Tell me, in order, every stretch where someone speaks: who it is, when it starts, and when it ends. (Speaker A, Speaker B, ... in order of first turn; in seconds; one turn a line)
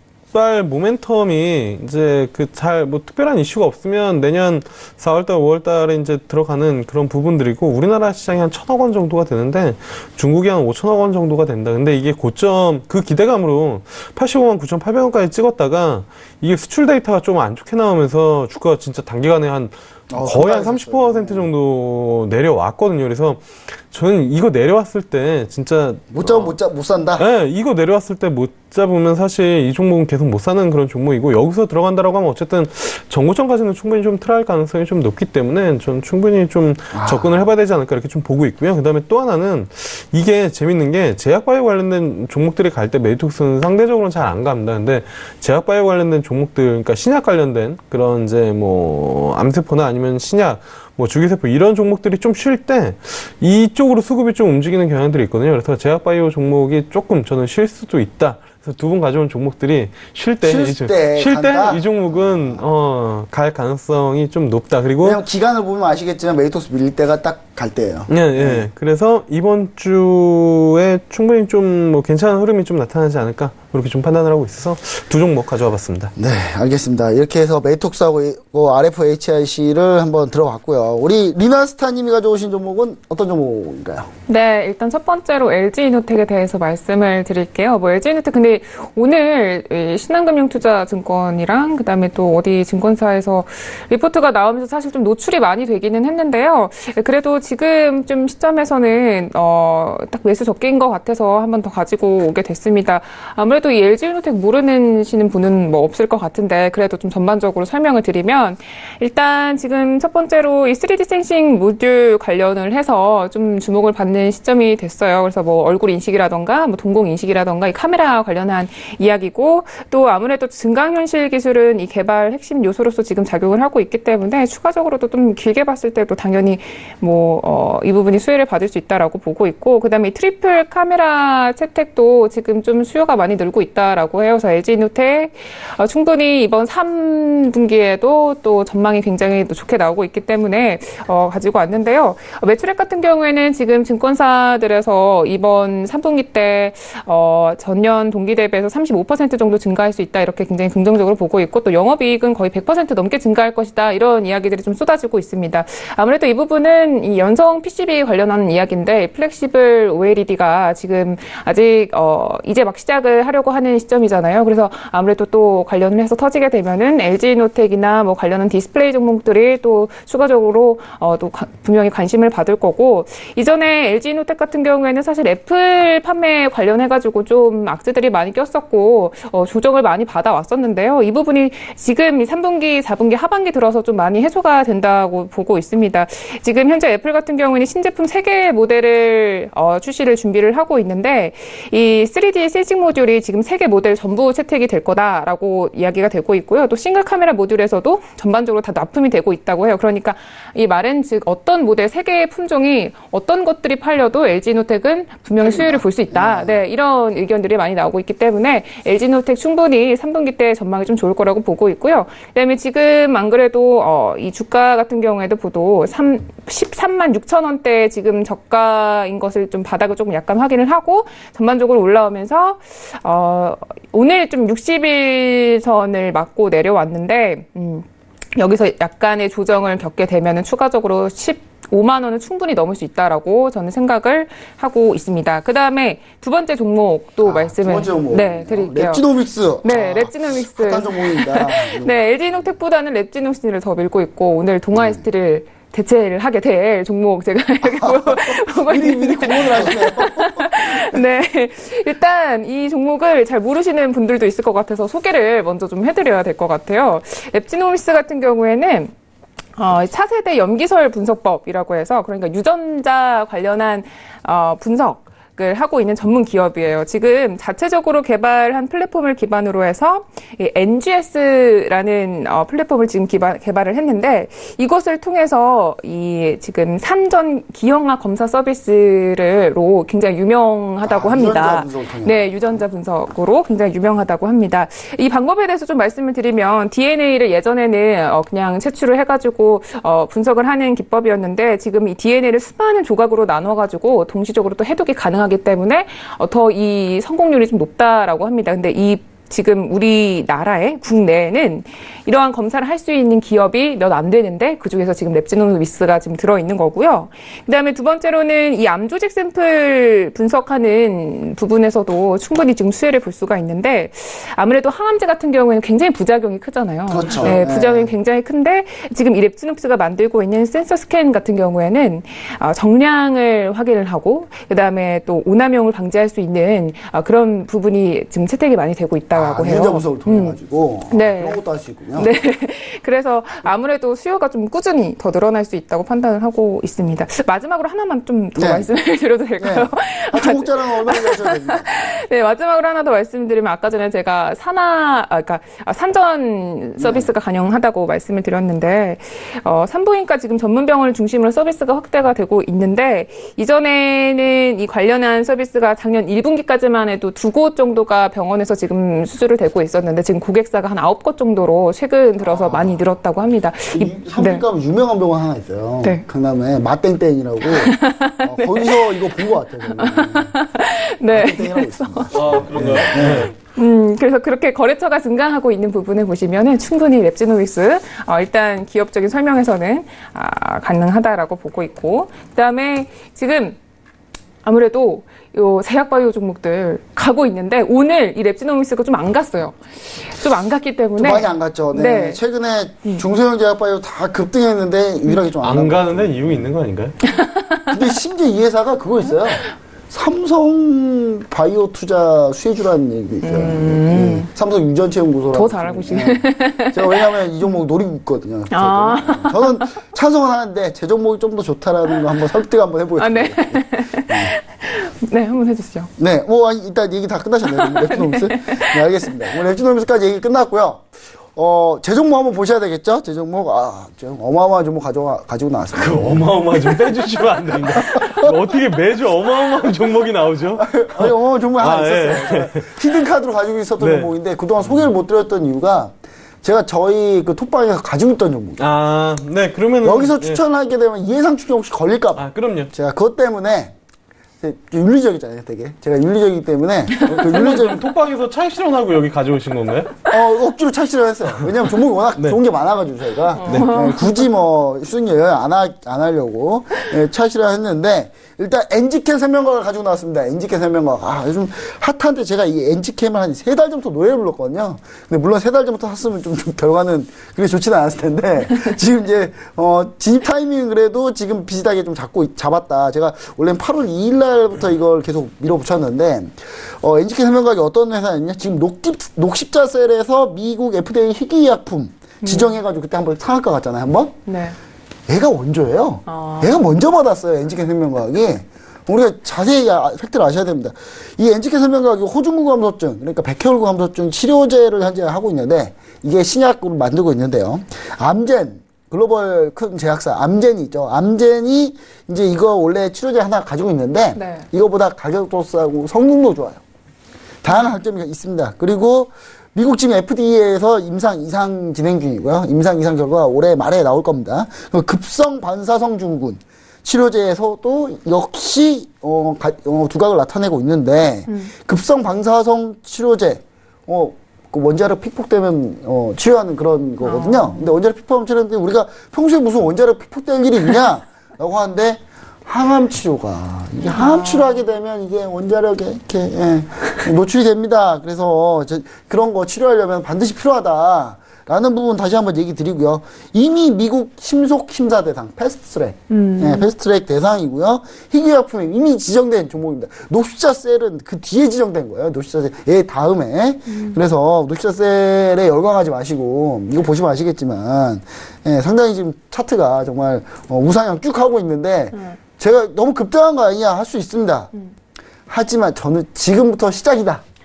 Speaker A: 0.3-26.6
Speaker B: 20.1-21.5
Speaker B: 26.1-27.3
Speaker A: 27.2-65.2
Speaker B: 36.9-37.3
Speaker B: 60.4-62.6
Speaker B: 65.0-68.7
Speaker A: 68.1-76.1
Speaker B: 76.2-84.1
Speaker C: 84.3-239.0
Speaker B: 205.4-206.6
Speaker B: 237.2-242.0
Speaker C: 239.6-258.9
Speaker B: 244.7-245.0
Speaker B: 247.6-251.0
Speaker C: 259.6-330.4
Speaker B: 280.8-282.3
Speaker B: 316.9-317.9
Speaker B: 329.1-332.1
Speaker C: 330.9-331.4
Speaker C: 331.9-364.4
Speaker B: 338.4-338.7
Speaker B: 339.4-341.9
Speaker B: 346.8-347.1
Speaker B: 362.2-362.8
Speaker B: 363.7-370.3
Speaker C: 367.5-369.1
Speaker C: 369.7-372.2
Speaker B: 371.1-373.3
Speaker A: 372.1-373.3
Speaker C: 373.1-383.6
Speaker C: 384.4-392.2
Speaker B: 391.0-396.5
Speaker A: 395.4-397.0
Speaker C: 397.0-397.7
Speaker B: 397.7-414.3
Speaker C: 403.2-404.3
Speaker C: 405.3-407.1
Speaker C: 408.5-409.8
Speaker C: 413.0-415.9
Speaker B: 416.0-426.2
Speaker C: 417.5-418.8
Speaker A: 425.8-432.7
Speaker B: 427.7-428.4
Speaker B: 430.6-438.6
Speaker A: 433.8-434.9
Speaker A: 438.6-440.4
Speaker B: 439.8-443.7
Speaker A: 442.2-442.7
Speaker B: 444.4-447.9
Speaker C: 447.0-447.2
Speaker A: 447.1-450.0
Speaker B: 450.1-484.2
Speaker C: 453.4-454.2
Speaker C: 482.2-482.5
Speaker C: 484.3-484.6
Speaker B: 485.1-506.6
Speaker C: 486.1-486.6
Speaker C: 504.1-504.5
Speaker B: 507.4-564.5
Speaker C: 507.5-507.8
Speaker C: 527.0-527.7
Speaker C: 533.9-534.6
Speaker C: 546.1-546.7
Speaker C: 553.7-554.0
Speaker B: 565.3-567.2